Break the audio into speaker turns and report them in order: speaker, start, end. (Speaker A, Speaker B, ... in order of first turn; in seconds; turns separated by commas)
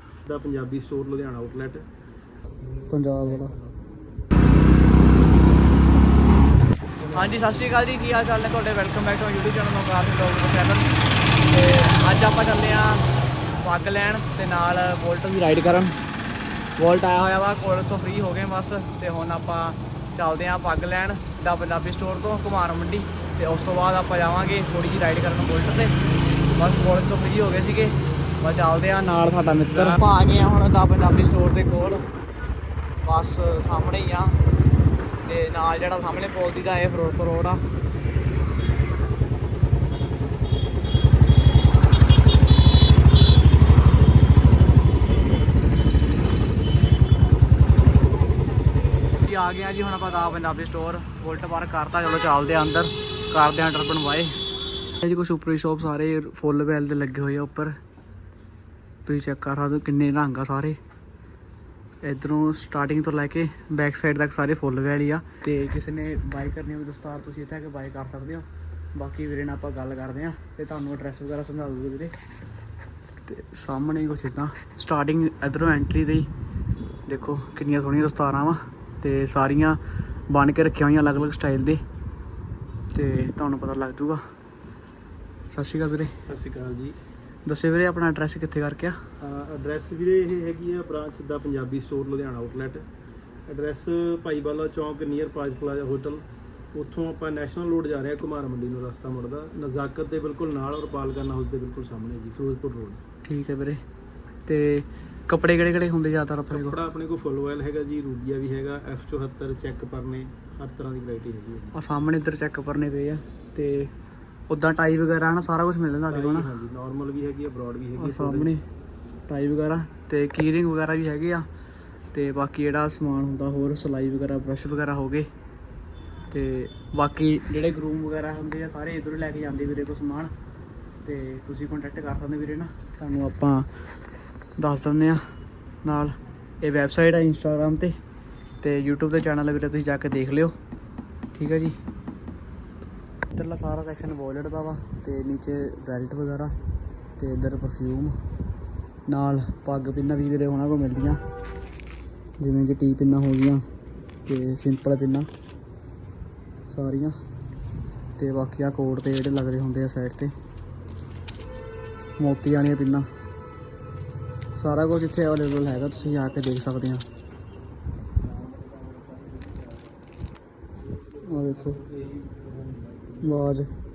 Speaker A: 0.3-1.9, Speaker B: 2.9-3.6, Speaker B: 7.1-10.9, Speaker B: 11.5-13.1, Speaker B: 13.6-16.0, Speaker B: 16.8-26.0, Speaker B: 26.6-32.0, Speaker B: 33.0-34.4, Speaker B: 35.3-37.6, Speaker B: 49.3-54.3, Speaker B: 55.0-57.8, Speaker B: 59.1-60.8, Speaker B: 62.0-72.1, Speaker B: 73.2-76.3, Speaker B: 77.1-81.8, Speaker B: 82.9-84.2, Speaker B: 85.5-86.1, Speaker A: 86.2-87.0, Speaker B: 87.5-89.0, Speaker A: 89.2-92.8, Speaker A: 93.5-96.2, Speaker A: 96.8-103.0, Speaker B: 103.3-103.8, Speaker B: 104.5-106.8, Speaker A: 106.5-111.7, Speaker B: 111.8-113.9, Speaker B: 114.5-116.5, Speaker A: 116.1-118.5, Speaker B: 118.0-118.6, Speaker B: 119.3-121.5, Speaker B: 122.1-125.3, Speaker B: 126.3-130.3, Speaker B: 131.1-133.7, Speaker B: 134.6-135.2, Speaker B: 135.8-137.9, Speaker B: 138.6-140.6, Speaker B: 141.3-141.8, Speaker B: 143.3-146.5, Speaker B: 147.2-148.2, Speaker B: 149.1-151.2, Speaker B: 152.4-153.6, Speaker B: 154.3-155.3, Speaker B: 156.7-157.2, Speaker B: 158.2-160.3, Speaker B: 162.2-163.1, Speaker B: 164.6-167.0, Speaker B: 171.3-171.8, Speaker A: 171.8-172.4, Speaker B: 173.2-173.7